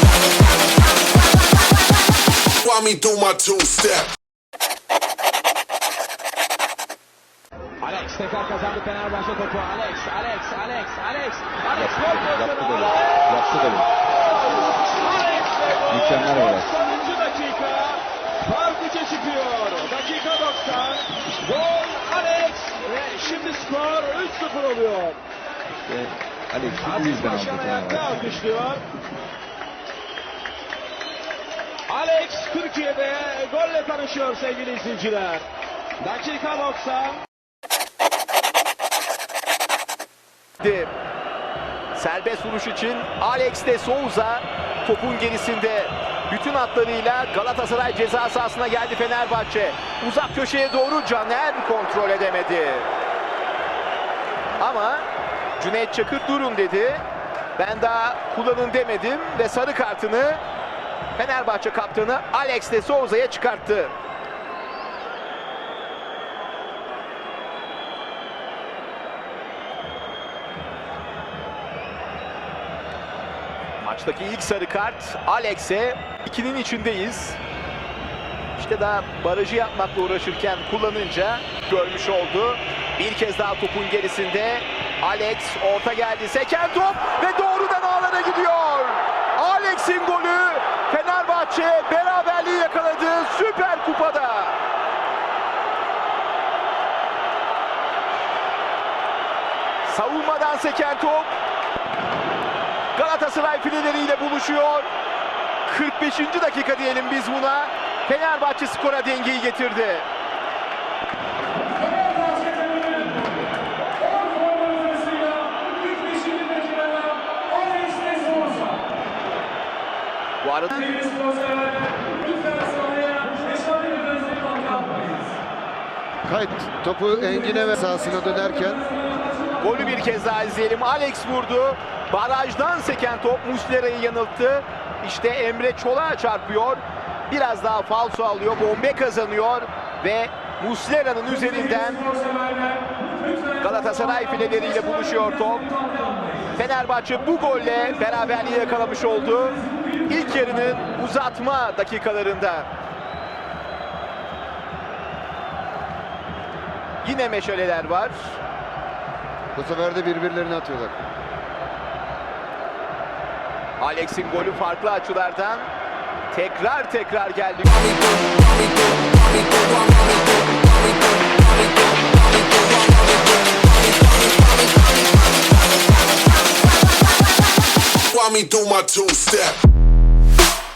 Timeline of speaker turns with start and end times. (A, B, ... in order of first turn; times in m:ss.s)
0:02.5-0:04.1 A
0:07.8-0:25.2 B
0:11.7-0:13.9 C
0:15.9-0:16.7 C
0:25.8-0:28.3 C
0:26.8-0:28.8 B
0:31.9-0:35.4 B
0:36.0-0:37.2 B
0:40.6-0:40.9 D
0:41.9-0:52.9 D
0:54.6-0:55.0 D
0:55.6-0:57.0 D
0:57.6-1:00.4 D
1:01.2-1:03.9 D
1:13.8-1:17.4 D
1:18.5-1:34.6 D
1:39.8-1:41.3 D
1:42.9-1:44.9 D
1:45.7-1:50.0 D
2:00.4-2:01.1 D
2:03.0-2:05.1 D
2:06.2-2:08.9 E
2:09.6-2:22.2 D
2:23.6-2:25.9 D
2:26.4-2:32.7 D
2:37.0-2:38.4 D
2:39.5-2:41.0 E
2:43.8-2:45.7 D
2:46.3-2:47.7 D
2:47.7-2:54.6 A
2:58.1-2:59.6 A